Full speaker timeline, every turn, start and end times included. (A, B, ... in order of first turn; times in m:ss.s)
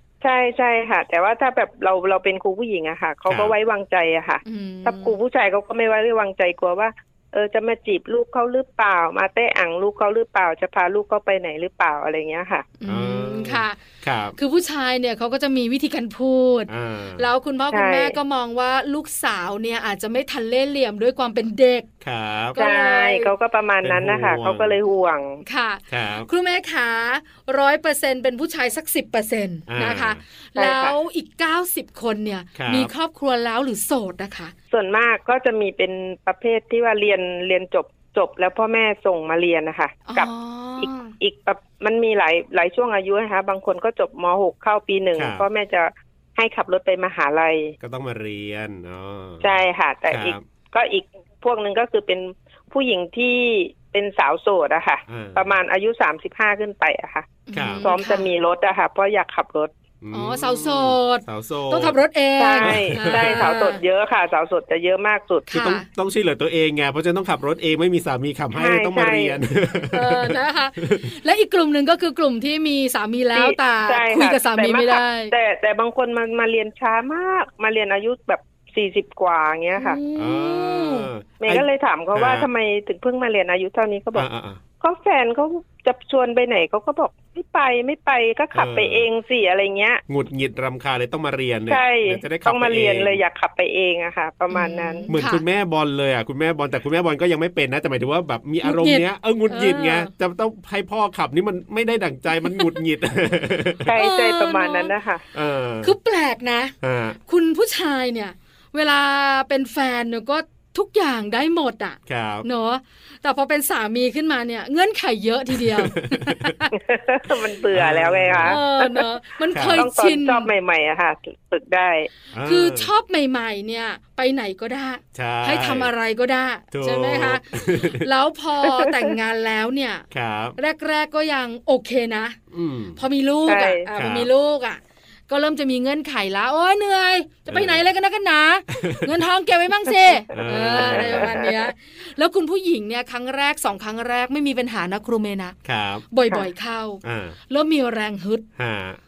0:00.2-0:12.7 A
0:03.3-0:03.5 B
0:04.4-0:05.2 C
0:12.8-0:13.8 C
0:12.9-0:14.4 B
0:14.4-0:21.9 C
0:16.7-0:17.2 B
0:17.7-0:18.2 A
0:22.0-0:22.6 B
0:22.5-0:23.3 C
0:22.6-0:25.4 A
0:23.8-0:24.7 B
0:25.4-0:34.5 C
0:25.9-0:26.3 B
0:29.7-0:30.2 B
0:30.6-0:30.9 A
0:32.6-0:32.9 B
0:34.7-0:47.7 A
0:40.1-0:41.1 C
0:45.2-0:45.4 B
0:47.8-0:49.5 B
0:49.4-0:59.7 A
0:50.1-0:50.4 B
0:55.1-0:55.5 B
0:57.5-0:58.3 C
0:57.5-0:57.8 B
1:00.0-1:02.0 B
1:00.1-1:03.8 C
1:02.4-1:05.5 A
1:02.6-1:03.5 B
1:05.5-1:05.9 C
1:05.5-1:11.1 B
1:08.5-1:09.4 A
1:09.9-1:15.3 C
1:13.3-1:20.0 A
1:19.8-1:21.1 C
1:20.2-1:22.5 B
1:21.4-1:24.3 A
1:24.1-1:24.6 B
1:24.8-1:30.0 A
1:28.5-1:29.1 B
1:30.1-1:33.2 B
1:31.7-1:35.1 A
1:34.5-1:35.4 C
1:35.1-1:43.9 B
1:38.6-1:40.1 C
1:42.4-1:42.8 C
1:43.8-1:45.2 A
1:43.9-1:44.9 C
1:45.3-1:45.9 B
1:45.8-1:46.7 C
1:46.8-1:47.2 B
1:47.2-1:56.7 C
1:52.1-1:52.4 B
1:55.6-1:56.6 B
1:56.7-1:59.0 A
1:57.7-1:58.6 B
1:58.4-2:00.5 C
1:59.5-1:59.8 B
1:59.6-2:02.1 A
2:02.3-2:02.9 B
2:02.4-2:10.0 C
2:05.1-2:05.9 B
2:06.7-2:08.0 B
2:10.1-2:10.6 B
2:10.6-2:12.4 C
2:12.5-2:13.0 B
2:13.0-2:25.6 C
2:13.4-2:13.8 A
2:13.9-2:14.3 B
2:17.5-2:17.8 B
2:18.7-2:19.2 B
2:20.3-2:21.5 B
2:20.8-2:21.5 A
2:25.6-2:26.0 B
2:26.1-2:28.4 C
2:27.0-2:27.4 B
2:28.6-2:29.0 B